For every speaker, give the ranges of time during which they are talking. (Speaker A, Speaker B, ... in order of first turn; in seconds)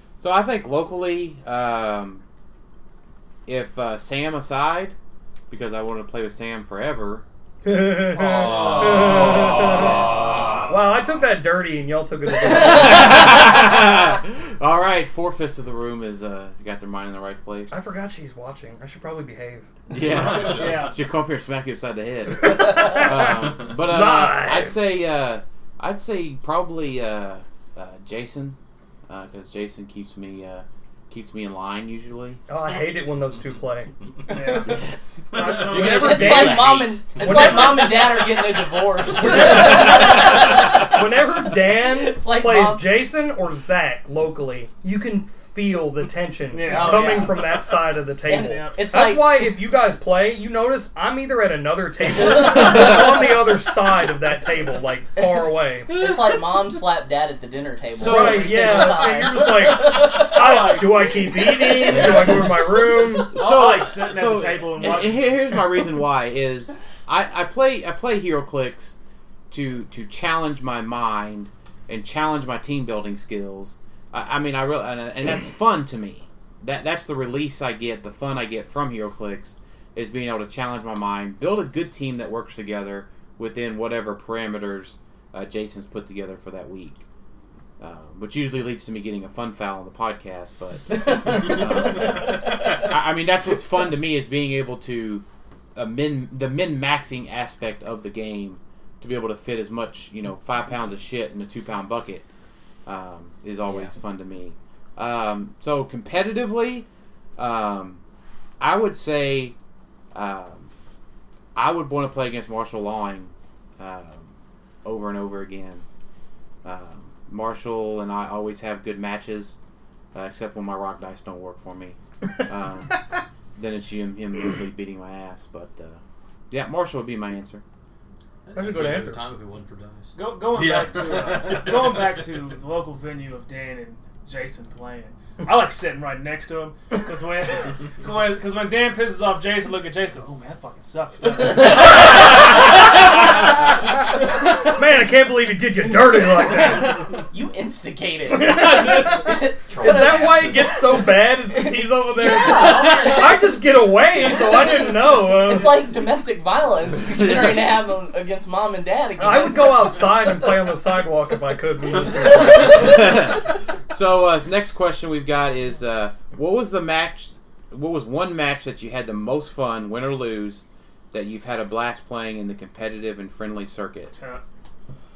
Speaker A: 0.2-2.2, 3.5-5.0, 5.5-7.2, 12.4-17.7, 19.9-28.6, 29.1-32.4, 57.9-58.8, 63.3-69.0, 69.5-87.0, 87.8-95.2, 95.7-102.2, 102.8-108.0, 108.6-109.5, 110.1-110.7, 111.5-114.3, 114.8-115.8, 116.6-119.6, 120.1-127.6, 162.4-174.1
Speaker B: 7.6-13.3, 17.7-19.7, 22.3-24.8, 32.5-33.9, 35.8-38.0, 39.1-55.9, 58.0-63.4, 128.5-129.2, 144.6-147.2, 148.3-155.9, 159.2-163.0
Speaker C: 7.8-10.7, 20.0-20.9, 35.6-37.0, 128.4-132.3, 149.6-150.8, 152.5-153.2
Speaker D: 12.4-13.4, 34.4-34.8, 35.6-43.0, 46.6-47.6, 48.3-49.6, 55.2-63.0, 103.7-103.9, 146.5-153.4, 154.3-160.3
Speaker E: 20.4-20.9, 34.3-36.6, 46.5-47.4, 48.4-48.8, 59.8-62.4, 63.3-65.7, 130.1-141.9, 174.1-174.4